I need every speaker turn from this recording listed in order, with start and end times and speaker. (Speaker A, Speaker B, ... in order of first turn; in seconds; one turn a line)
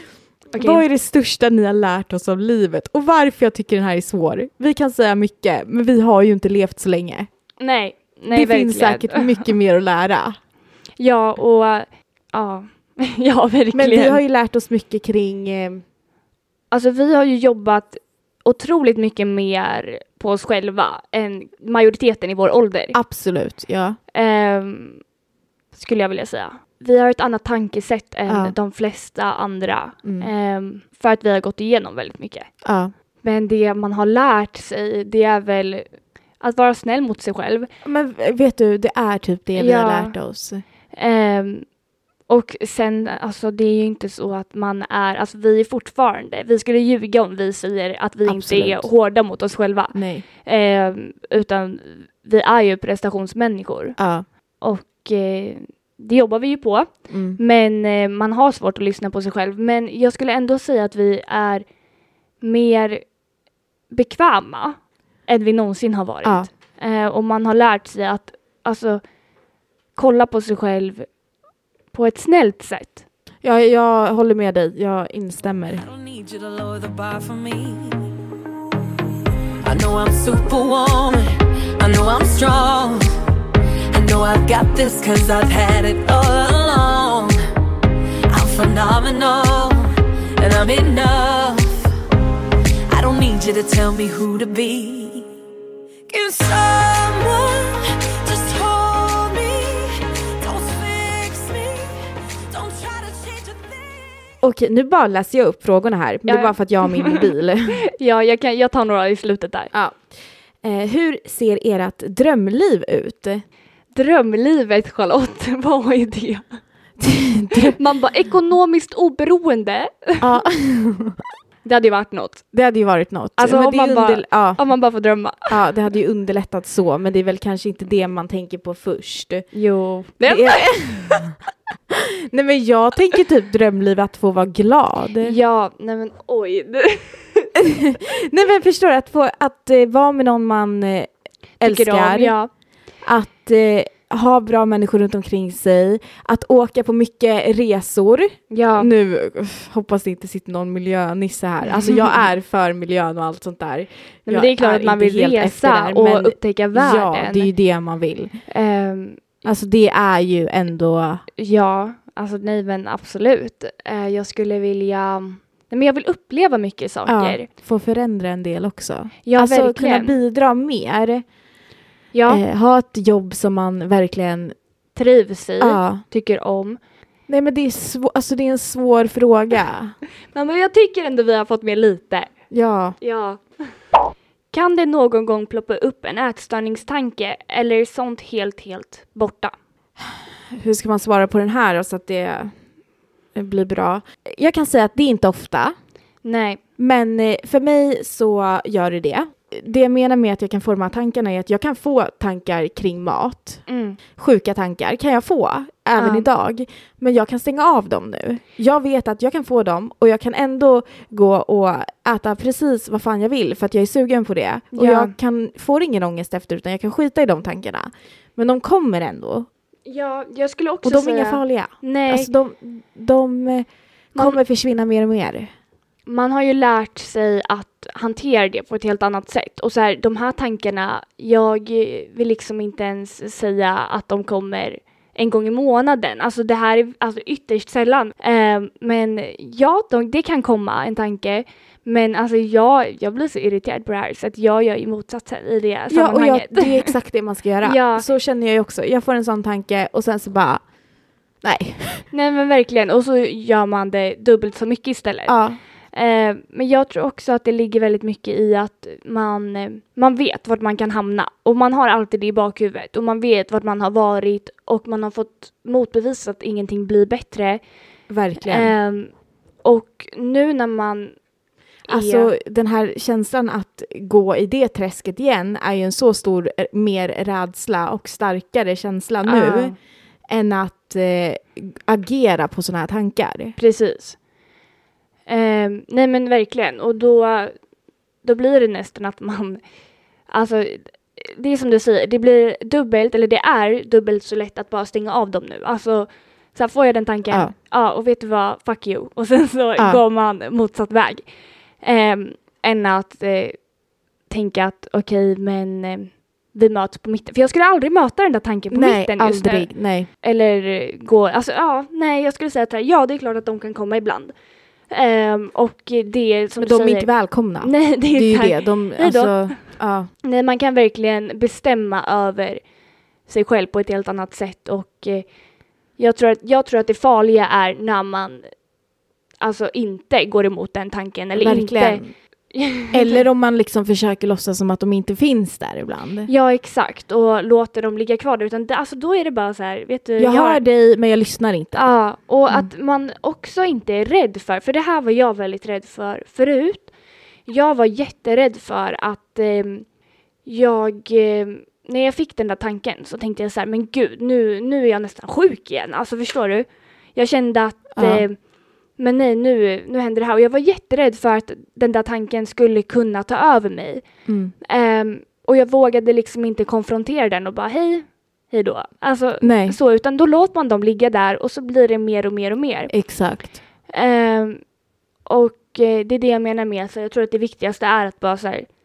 Speaker A: 0.5-0.8
Speaker B: 0.5-7.3
Speaker A: 7.6-9.5
Speaker B: 8.3-10.4
Speaker A: 11.0-14.2
Speaker B: 13.7-15.8
Speaker A: 16.7-23.0
Speaker B: 22.9-24.0
Speaker A: 24.1-25.0
Speaker A: 25.7-32.5
Speaker B: 28.3-28.5
Speaker B: 30.0-30.3
Speaker B: 32.6-32.9
Speaker A: 33.2-35.9
Speaker A: 36.4-37.7
Speaker B: 37.9-40.6
Speaker A: 39.6-40.1
Speaker A: 40.9-41.7
Speaker A: 42.3-54.0
Speaker B: 48.3-48.9
Speaker B: 49.9-50.2
Speaker B: 54.0-54.2
Speaker A: 54.6-61.6
Speaker B: 57.1-57.4
Speaker A: 62.4-63.0
Speaker A: 63.9-69.0
Speaker A: 70.0-71.1
Speaker A: 71.9-73.0
Speaker B: 73.4-75.8
Speaker C: 75.8-78.3
Speaker C: 79.6-81.2
Speaker C: 81.8-83.1
Speaker C: 83.9-87.4
Speaker C: 88.3-91.9
Speaker C: 92.9-95.3
Speaker C: 96.1-104.3
Speaker B: 104.4-107.8
Speaker A: 106.3-107.3
Speaker A: 107.9-109.7
Speaker B: 109.7-110.0
Speaker B: 110.6-113.4
Speaker A: 113.9-116.6
Speaker B: 117.0-117.8
Speaker A: 117.7-120.3
Speaker B: 120.2-121.2
Speaker A: 121.7-122.5
Speaker B: 122.5-124.6
Speaker A: 123.4-125.6
Speaker B: 125.5-129.5
Speaker A: 129.5-131.2
Speaker B: 130.2-131.3
Speaker B: 131.9-135.3
Speaker A: 135.2-137.5
Speaker B: 137.6-141.1
Speaker B: 141.6-142.4
Speaker A: 141.6-142.5
Speaker B: 143.0-158.3
Speaker A: 148.5-148.9
Speaker A: 154.3-157.5
Speaker A: 158.5-159.4
Speaker B: 159.4-161.2
Speaker A: 161.4-167.5
Speaker B: 167.1-171.2
Speaker A: 169.2-170.2
Speaker A: 172.1-172.4
Speaker B: 172.3-174.6
Speaker A: 174.9-176.8
Speaker B: 175.6-176.0
Speaker B: 177.3-180.0
Speaker A: 180.3-182.3
Speaker B: 182.5-183.0
Speaker A: 183.0-183.4
Speaker A: 184.5-189.5
Speaker B: 190.6-192.6
Speaker B: 193.3-195.8
Speaker A: 196.2-196.6
Speaker B: 196.8-203.6
Speaker A: 203.7-204.0
Speaker B: 204.2-219.5
Speaker A: 206.0-206.3
Speaker A: 214.7-215.1
Speaker A: 219.9-222.3
Speaker B: 220.8-225.5
Speaker A: 226.1-246.9
Speaker B: 245.9-250.6
Speaker A: 247.6-248.1
Speaker B: 251.4-252.1
Speaker A: 252.1-255.4
Speaker B: 255.3-255.6
Speaker A: 255.9-267.6
Speaker B: 268.1-268.7
Speaker A: 268.4-269.1
Speaker A: 269.6-271.1
Speaker A: 271.9-272.3
Speaker B: 271.9-279.7
Speaker A: 279.3-279.8
Speaker B: 280.3-283.6
Speaker A: 283.6-284.2
Speaker A: 285.3-287.6
Speaker A: 288.2-289.6
Speaker A: 290.3-301.2
Speaker A: 301.8-303.6
Speaker A: 304.3-314.3
Speaker B: 308.7-310.1
Speaker A: 314.9-317.1
Speaker B: 316.6-320.1
Speaker A: 317.6-319.6
Speaker A: 320.2-322.6
Speaker A: 323.3-325.3
Speaker A: 326.0-328.5
Speaker A: 329.4-332.0
Speaker B: 331.4-332.1
Speaker A: 332.5-333.2
Speaker B: 332.9-336.3
Speaker A: 336.3-340.6
Speaker B: 340.2-341.9
Speaker A: 341.7-346.9
Speaker A: 347.5-349.9
Speaker A: 350.5-358.4
Speaker B: 358.0-358.2
Speaker A: 359.0-364.0
Speaker B: 364.3-364.5
Speaker A: 364.6-372.9
Speaker B: 369.4-369.8
Speaker B: 372.9-373.6
Speaker A: 373.9-374.6
Speaker A: 375.3-378.7